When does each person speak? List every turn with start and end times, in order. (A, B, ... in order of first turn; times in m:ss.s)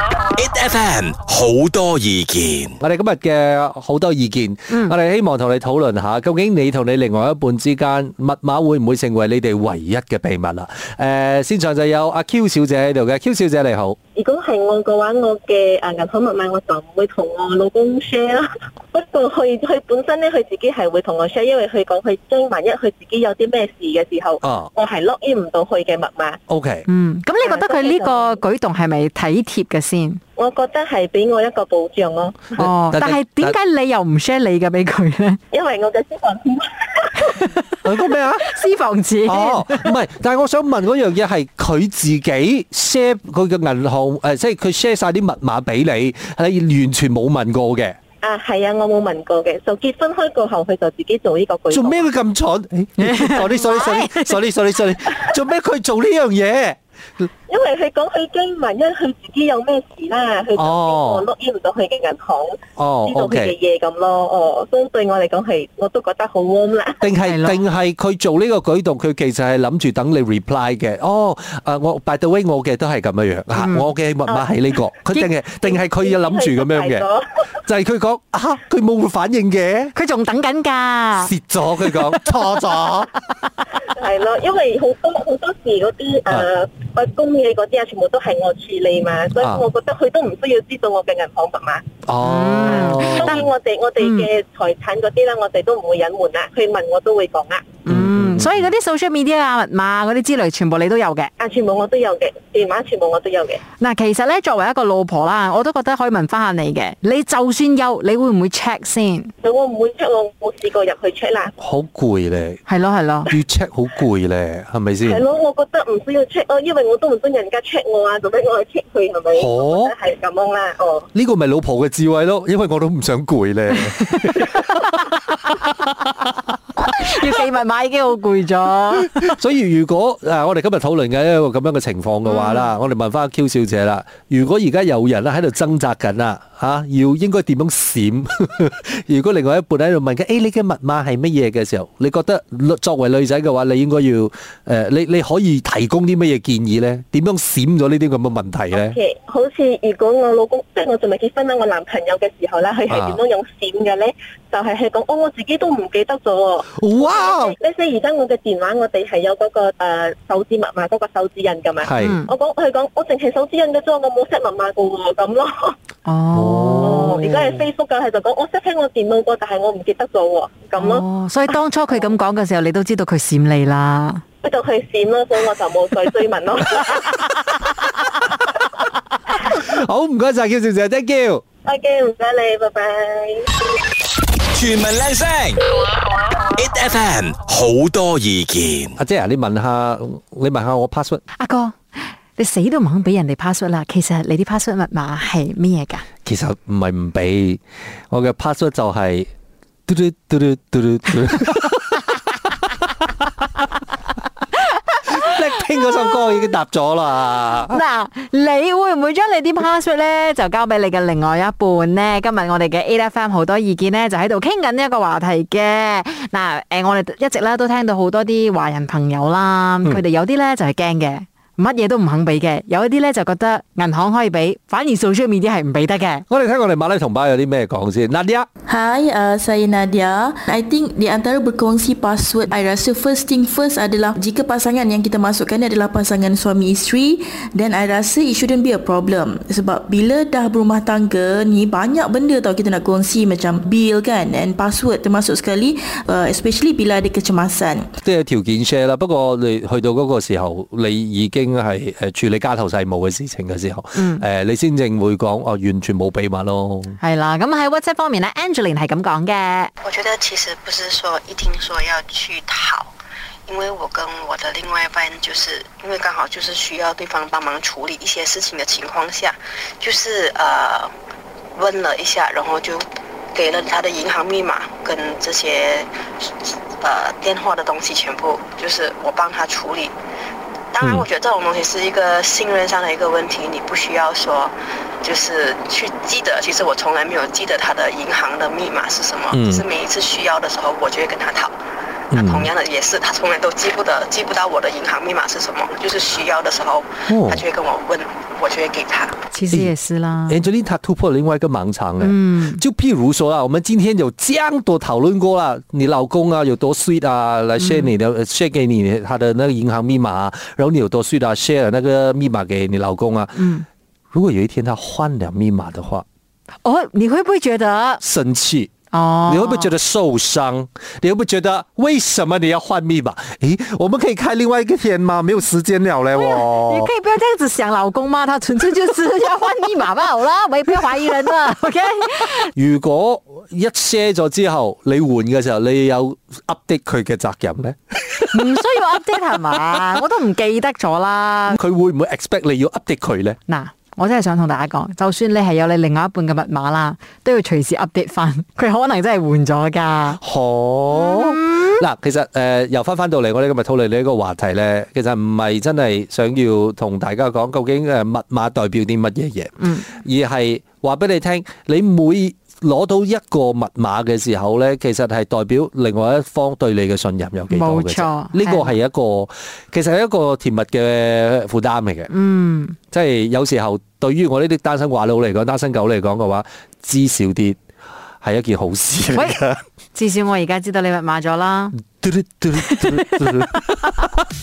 0:00.3-0:02.8 A
0:02.8-0:14.0 B
0:14.2-0:26.4 C
0:24.4-0:24.7 B
0:26.5-0:26.9 B
0:26.9-0:30.2 D
0:27.4-0:28.4 C
0:30.4-0:32.5 C
0:32.6-0:35.4 D
0:32.6-0:33.6 B
0:35.5-0:37.5 C
0:37.8-0:38.5 B
0:38.4-0:39.9 D
0:39.3-0:48.0 B
0:48.2-0:52.1 C
0:51.7-0:57.3 B
0:53.0-0:54.4 D
0:57.5-1:07.0 C
1:00.6-1:01.2 B
1:02.8-1:03.6 B
1:07.0-1:17.0 B
1:07.2-1:07.6 D
1:13.6-1:13.9 D
1:14.3-1:14.8 C
1:15.6-1:17.2 C
1:17.7-1:19.9 B
1:20.0-1:21.3 D
1:21.2-1:23.1 B
1:21.9-1:22.4 D
1:24.0-1:31.8 C
1:29.4-1:29.6 B
1:32.1-1:33.5 B
1:32.2-1:33.4 D
1:32.7-1:37.7 C
1:34.0-1:34.3 D
1:37.9-1:41.3 D
1:37.9-1:38.7 B
1:41.4-1:43.6 C
1:43.8-1:49.3 D
1:49.4-1:51.5 C
1:51.6-1:52.6 B
1:52.7-1:53.3 D
1:53.3-1:55.2 B
1:55.0-2:01.1 C
1:59.4-1:59.9 B
2:01.2-2:05.2 B
2:04.2-2:04.6 D
2:06.9-2:09.2 D
2:09.0-2:29.0 B
2:12.3-2:12.7 D
2:28.7-2:45.8 C
2:32.9-2:33.2 B
2:36.8-2:37.6 B
2:41.8-2:42.2 B
2:42.0-2:42.3 D
2:46.0-2:47.1 D
2:46.3-2:47.6 B
2:46.8-2:51.0 C
2:50.8-2:54.2 D
2:54.4-2:57.2 C
2:59.4-3:01.4 B
3:01.6-3:03.5 C
3:04.5-3:05.6 A
3:06.5-3:09.0 A
3:09.0-3:11.2 B
3:11.4-3:16.0 D
3:16.2-3:17.6 B
3:18.1-3:19.3 B
3:19.9-3:22.1 B
3:25.0-3:25.3 D
3:25.1-3:27.8 B
3:27.7-3:46.2 D
3:46.3-3:48.5 B
3:48.7-4:07.9 E
4:08.0-4:17.0 B
4:14.0-4:14.2 D
4:17.0-4:19.7 D
4:19.8-4:22.9 F
4:23.5-4:30.9 F
4:31.6-4:39.9 F
4:40.7-4:51.6 F
4:40.8-4:41.1 B
4:49.3-4:49.6 B
4:52.1-4:59.2 F
4:52.1-4:52.5 B
4:57.1-4:57.4 B
4:59.3-5:00.4 D
5:00.3-5:13.5 B
5:02.0-5:02.6 D
5:07.6-5:07.9 D
5:13.4-5:13.6 D
5:14.1-5:16.0 B
5:16.6-5:18.0 D
5:18.0-5:18.7 B
5:18.9-5:19.7 D
5:19.3-5:26.9 B
5:26.2-5:32.5 D
5:32.6-5:38.6 B
5:38.3-5:41.6 D
5:41.5-5:43.4 B
5:43.5-5:50.2 D
5:50.2-6:12.1 B
5:50.9-5:51.8 D
5:59.6-5:59.9 D
6:07.5-6:08.8 D
6:12.1-6:12.8 D
6:12.9-6:17.6 B
6:18.2-6:19.6 B
6:19.1-6:19.4 D
6:19.9-6:21.8 D
6:22.0-6:24.1 B
6:22.6-6:23.4 D